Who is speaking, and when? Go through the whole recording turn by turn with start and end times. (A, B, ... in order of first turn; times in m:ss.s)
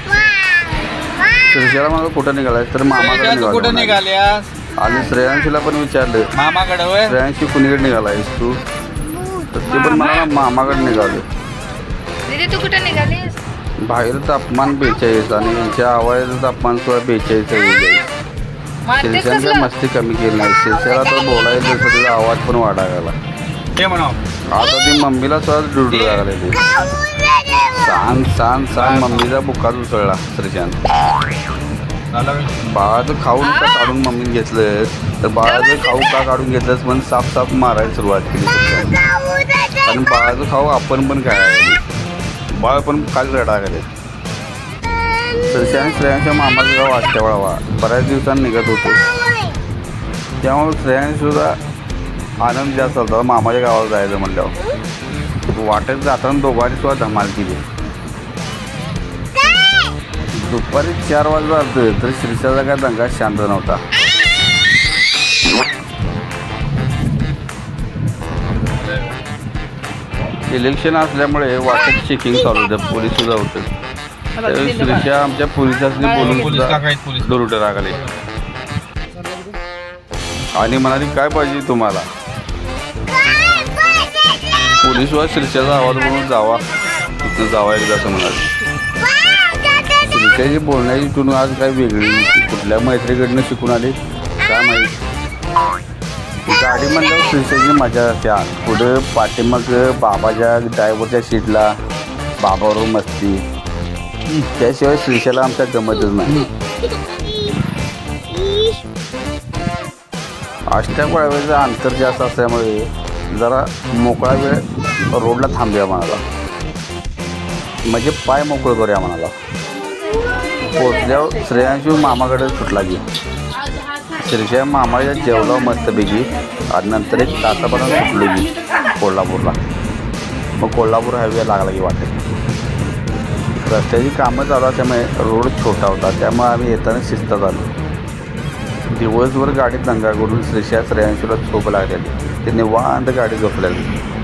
0:01.5-0:04.0 A
0:03.0-0:04.5 B
0:04.7-0:06.3 A
0:06.4-0:07.2 B
0:07.0-0:08.6 A
0:09.2-0:10.3 C
0:09.5-0:11.3 A
0:12.3-0:13.4 C
0:13.8-0:18.1 A
0:18.8-0:19.7 C
0:19.0-0:23.2 A
0:23.8-0:24.2 B
0:24.5-0:26.7 A
0:25.9-0:26.3 B
0:27.7-0:30.8 A
0:28.8-0:29.3 B
0:32.1-0:32.6 B
0:32.6-0:39.0 A
0:39.8-0:41.8 A
0:42.5-0:43.9 A
0:45.5-0:49.0 A
0:50.4-0:51.6 A
0:52.4-0:54.5 A
0:55.5-0:57.6 A
1:00.3-1:03.8 A
1:08.8-1:09.2 B
1:10.5-1:13.7 A
1:14.4-1:18.0 A
1:16.0-1:17.4 B
1:20.6-1:22.1 A
1:24.8-1:28.5 A
1:30.0-1:35.0 A
1:36.5-1:41.7 A
1:42.4-1:43.4 A
1:44.3-1:46.5 A
1:50.7-1:56.2 A
1:57.9-1:59.3 A
2:00.7-2:03.0 A
2:04.2-2:09.6 A
2:10.6-2:12.1 A
2:13.6-2:17.7 A
2:18.9-2:23.9 A